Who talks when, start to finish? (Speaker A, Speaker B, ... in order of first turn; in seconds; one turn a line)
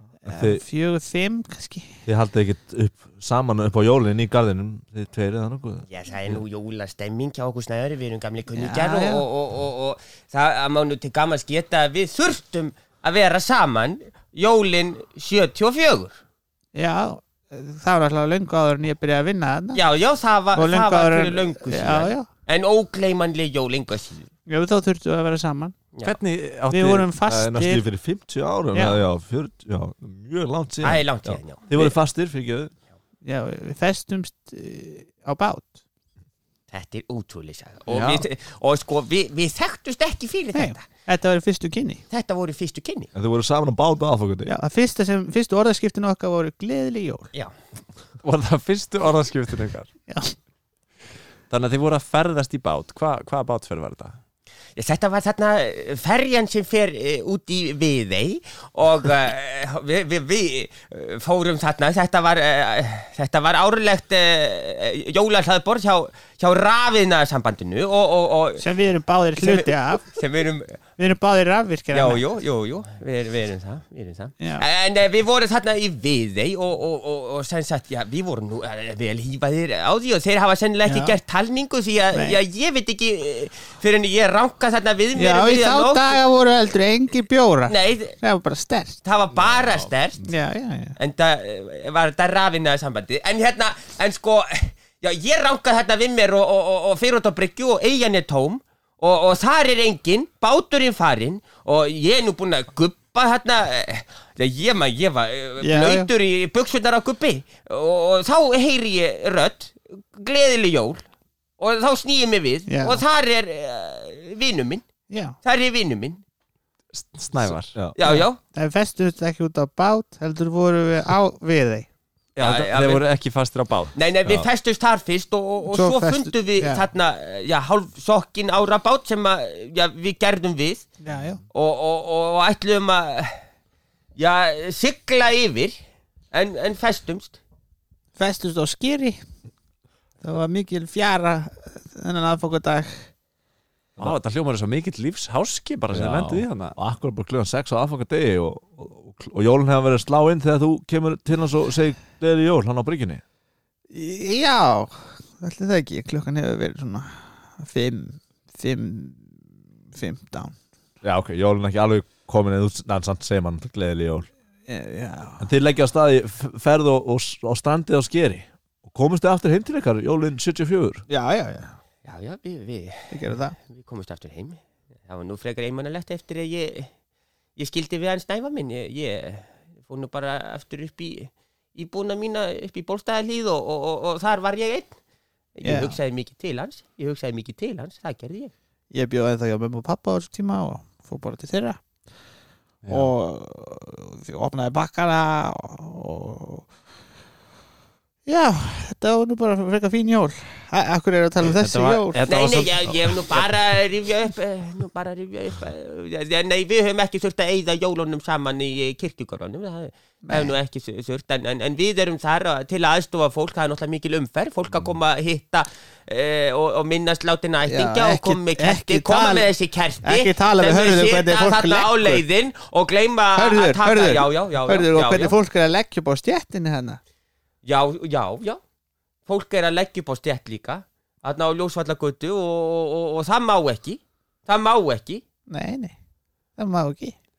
Speaker A: 0.2-2.0
Speaker B: 0.3-0.6
Speaker B: 2.1-5.8
Speaker C: 5.9-16.2
Speaker A: 8.5-9.3
Speaker A: 16.8-19.8
Speaker C: 19.7-24.3
Speaker A: 20.5-22.3
Speaker A: 24.5-25.8
Speaker D: 26.0-27.1
Speaker A: 26.7-27.9
Speaker B: 27.2-32.7
Speaker A: 28.7-29.0
Speaker C: 30.8-31.9
Speaker A: 33.2-35.8
Speaker C: 36.7-40.9
Speaker D: 37.9-38.2
Speaker A: 40.5-42.0
Speaker C: 42.1-43.1
Speaker B: 43.1-44.5
Speaker A: 44.5-47.3
Speaker D: 48.2-49.9
Speaker A: 50.1-50.3
Speaker D: 51.5-54.2
Speaker C: 54.8-68.6
Speaker A: 68.6-70.1
Speaker C: 69.4-70.8
Speaker A: 71.0-72.2
Speaker C: 71.9-86.2
Speaker A: 74.4-74.7
Speaker A: 80.8-81.2
Speaker A: 82.1-82.4
Speaker A: 85.2-89.0
Speaker C: 87.7-88.2
Speaker C: 89.0-90.2
Speaker B: 89.4-89.9
Speaker A: 90.2-91.0
Speaker C: 91.0-111.0
Speaker A: 105.6-106.1
Speaker C: 111.6-114.9
Speaker A: 112.7-113.0
Speaker A: 115.1-115.4
Speaker C: 115.4-116.2
Speaker D: 116.9-117.8
Speaker C: 118.0-118.4
Speaker A: 118.0-121.9
Speaker D: 122.4-123.9
Speaker C: 122.4-123.0
Speaker C: 124.0-130.9
Speaker A: 125.7-126.9
Speaker A: 131.0-131.4
Speaker C: 131.5-133.4
Speaker C: 134.2-135.8
Speaker C: 136.3-137.4
Speaker A: 138.2-139.2
Speaker A: 140.2-143.1
Speaker D: 144.0-146.8
Speaker B: 145.9-153.2
Speaker A: 153.9-159.4
Speaker A: 159.9-160.6
Speaker B: 161.0-164.3
Speaker A: 164.7-165.5
Speaker B: 165.4-171.1
Speaker A: 171.1-171.8
Speaker C: 172.1-173.1
Speaker A: 173.1-173.6
Speaker C: 173.7-176.9
Speaker C: 177.6-185.0
Speaker C: 185.6-188.5
Speaker A: 185.6-186.0
Speaker A: 188.9-191.8
Speaker D: 192.8-193.1
Speaker A: 192.9-196.7
Speaker A: 198.3-202.3
Speaker D: 201.5-203.8
Speaker C: 202.3-225.4
Speaker A: 210.3-210.5
Speaker A: 217.6-222.2
Speaker A: 223.3-227.0
Speaker C: 227.6-228.6
Speaker C: 229.3-235.2
Speaker A: 235.5-235.9
Speaker A: 236.6-237.2